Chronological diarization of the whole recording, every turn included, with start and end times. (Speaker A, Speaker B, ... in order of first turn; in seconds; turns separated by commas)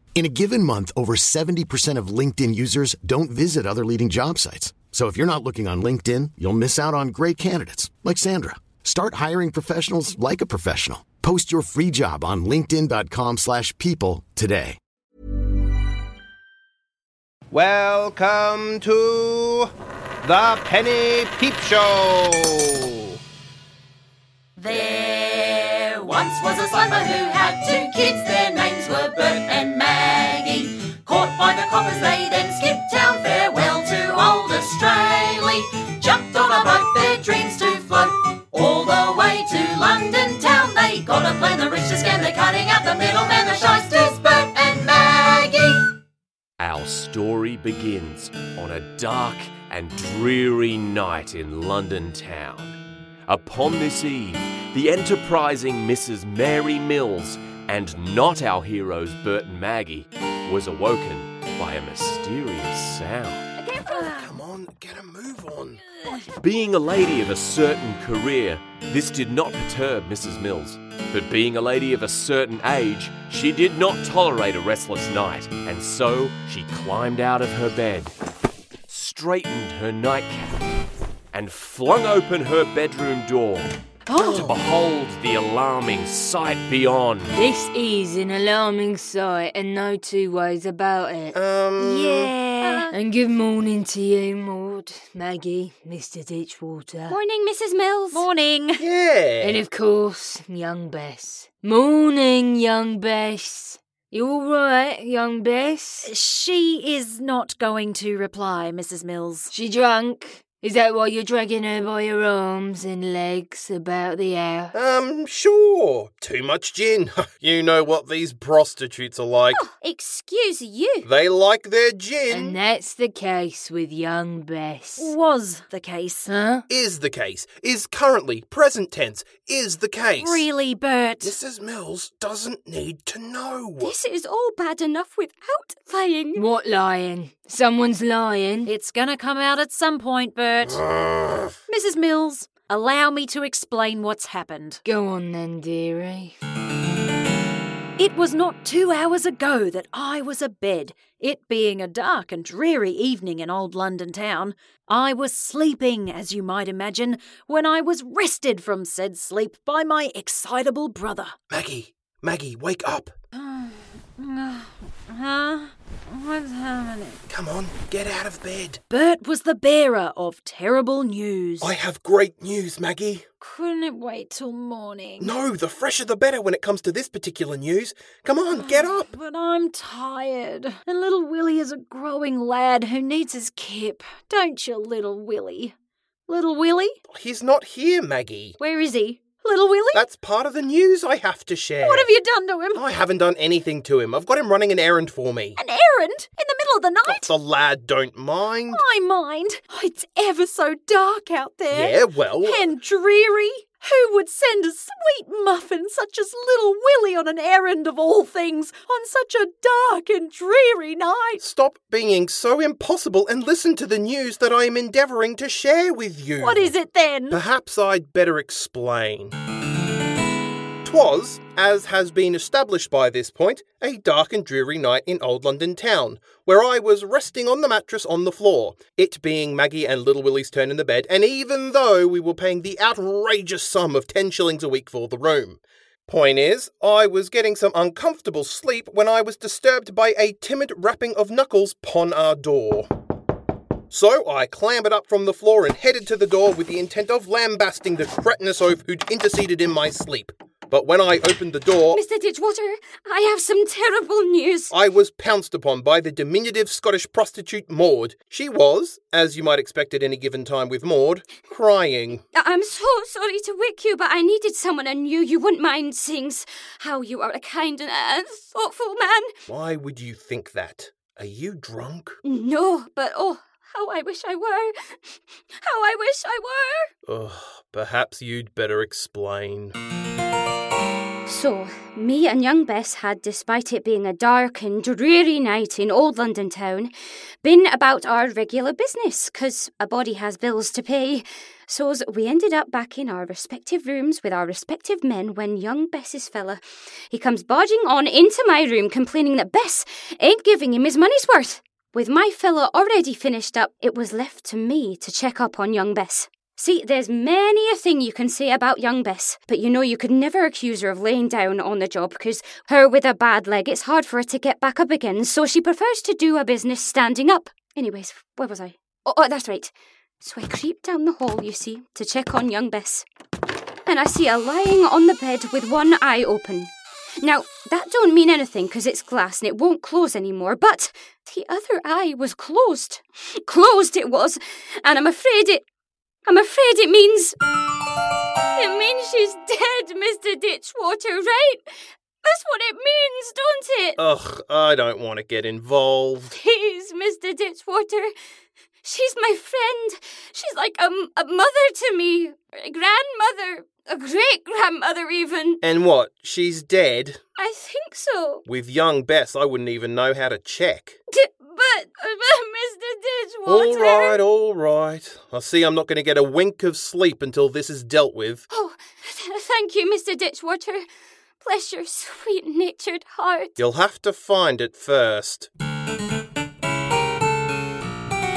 Speaker A: 0.1-14.8, Speaker B: 17.5-19.7, Speaker B: 20.2-23.2, Speaker C: 24.7-45.9, Speaker D: 46.6-52.8, Speaker D: 53.3-63.5, Speaker E: 63.6-64.2, Speaker F: 63.8-64.1, Speaker B: 63.9-65.9, Speaker D: 66.4-78.1, Speaker D: 78.9-80.6, Speaker D: 81.3-83.7, Speaker F: 84.1-84.5, Speaker D: 84.3-87.3, Speaker G: 87.3-91.4, Speaker B: 91.3-92.3, Speaker F: 91.8-92.9, Speaker E: 92.6-93.0, Speaker G: 92.9-97.2, Speaker E: 97.1-98.3, Speaker F: 98.1-98.8, Speaker B: 98.8-99.6, Speaker G: 99.4-106.1, Speaker F: 106.0-109.5, Speaker G: 109.5-114.7, Speaker B: 114.7-119.6, Speaker E: 119.5-121.1, Speaker B: 121.0-122.6, Speaker G: 122.3-125.1, Speaker F: 125.0-126.3, Speaker G: 126.3-126.7, Speaker B: 126.7-130.5, Speaker F: 130.2-131.3, Speaker B: 131.2-133.9, Speaker E: 133.8-136.4, Speaker G: 136.3-138.7, Speaker F: 138.7-140.8, Speaker B: 140.6-141.6, Speaker F: 141.7-144.8, Speaker G: 144.8-146.3, Speaker F: 148.0-161.3, Speaker B: 161.5-163.1, Speaker F: 163.3-167.2, Speaker B: 167.3-168.8, Speaker F: 168.9-171.7, Speaker B: 171.6-173.2, Speaker F: 173.4-175.3, Speaker B: 175.2-179.1, Speaker F: 178.5-185.7, Speaker F: 186.3-187.0, Speaker B: 187.1-188.6, Speaker F: 188.6-190.1, Speaker B: 189.9-192.1, Speaker F: 191.8-192.8, Speaker B: 192.7-195.6, Speaker F: 195.6-197.3, Speaker B: 197.1-198.8, Speaker F: 198.7-211.4, Speaker B: 201.7-202.7, Speaker B: 211.4-216.7, Speaker F: 216.4-217.4, Speaker B: 217.3-219.3, Speaker B: 220.8-242.9, Speaker B: 243.9-252.0, Speaker E: 251.9-254.7, Speaker B: 254.7-262.2, Speaker E: 262.3-269.3, Speaker B: 269.5-272.2, Speaker E: 272.2-276.9, Speaker B: 277.1-279.8, Speaker E: 281.3-286.9, Speaker E: 287.4-323.1, Speaker E: 323.9-326.7, Speaker E: 327.2-335.6, Speaker E: 336.3-337.4, Speaker E: 338.6-341.6, Speaker E: 342.2-344.0, Speaker B: 344.0-346.4, Speaker E: 346.3-348.1, Speaker E: 348.8-355.6, Speaker B: 355.6-357.2, Speaker E: 357.4-358.4, Speaker B: 358.5-361.0, Speaker E: 361.1-364.2, Speaker B: 363.5-368.4, Speaker E: 368.5-370.9, Speaker E: 371.4-373.6, Speaker B: 373.6-375.5